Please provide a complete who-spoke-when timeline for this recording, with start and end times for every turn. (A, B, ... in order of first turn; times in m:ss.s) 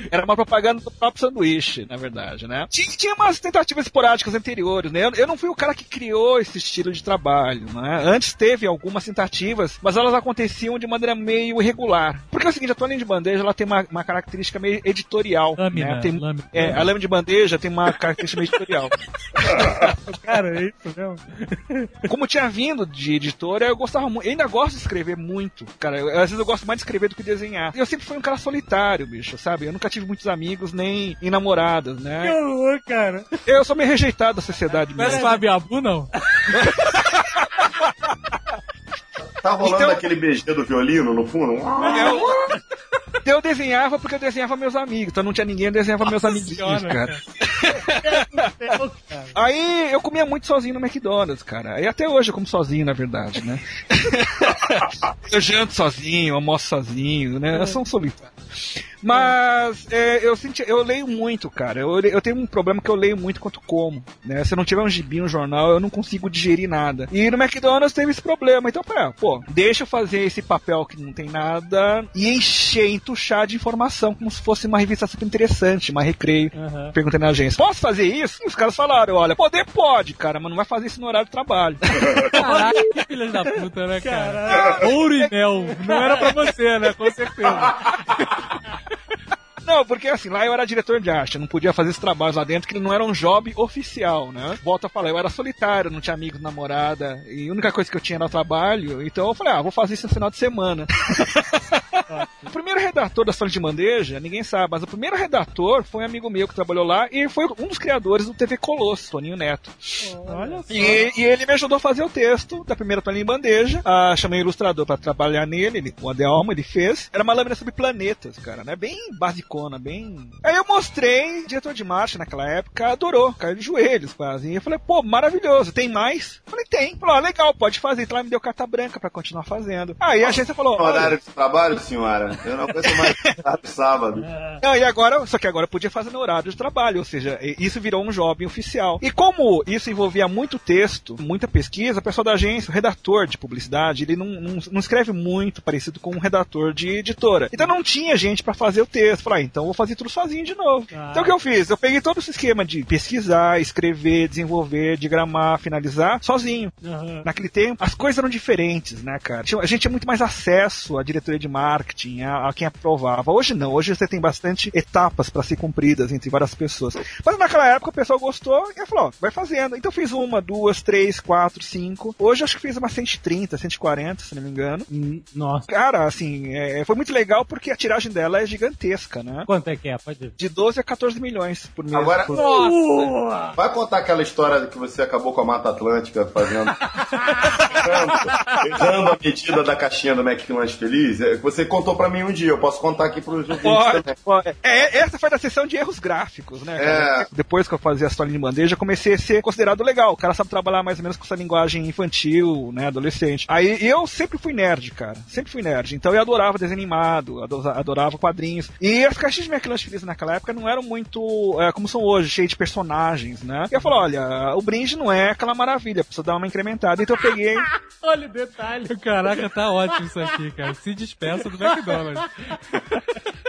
0:00.1-0:18.9 A
0:15.6-0:16.8 B
0:19.5-0:22.1 C
0:22.1-0:32.4 A
0:32.2-0:33.4 C
0:33.5-0:35.3 A
0:35.0-0:36.1 B
0:35.0-0:35.4 C
0:36.3-0:36.6 C
0:36.5-0:37.3 A
0:39.4-0:42.6 D
0:39.6-0:40.0 A
0:41.8-0:42.3 C
0:41.8-0:42.3 A
0:43.2-0:48.4 A
0:46.0-0:47.2 B
0:48.0-0:49.4 C
0:49.3-0:58.3 A
0:59.0-1:22.5 A
1:16.6-1:17.0 C
1:22.3-1:28.3 B
1:22.4-1:22.8 C
1:24.0-1:24.9 C
1:25.8-1:26.3 C
1:27.5-1:28.1 A
1:29.6-1:50.1 A
1:42.1-1:42.5 C
1:50.0-1:51.1 C
1:50.3-1:51.1 B
1:50.7-2:11.2 A
2:10.2-2:14.3 D
2:12.8-2:13.4 A
2:14.2-2:14.6 C
2:14.6-2:54.9 A
2:30.9-2:31.4 C
2:36.8-2:37.3 C
2:54.9-2:55.7 C
2:55.7-2:59.5 A
2:59.5-3:00.4 C
3:00.4-3:02.7 A
3:01.9-3:02.6 D
3:02.3-3:03.6 C
3:03.6-3:06.8 D
3:07.5-3:07.8 A
3:07.7-3:14.2 D
3:13.6-3:37.7 A
3:16.8-3:17.3 D
3:38.0-3:39.3 C
3:38.9-3:42.9 B
3:41.3-3:42.6 C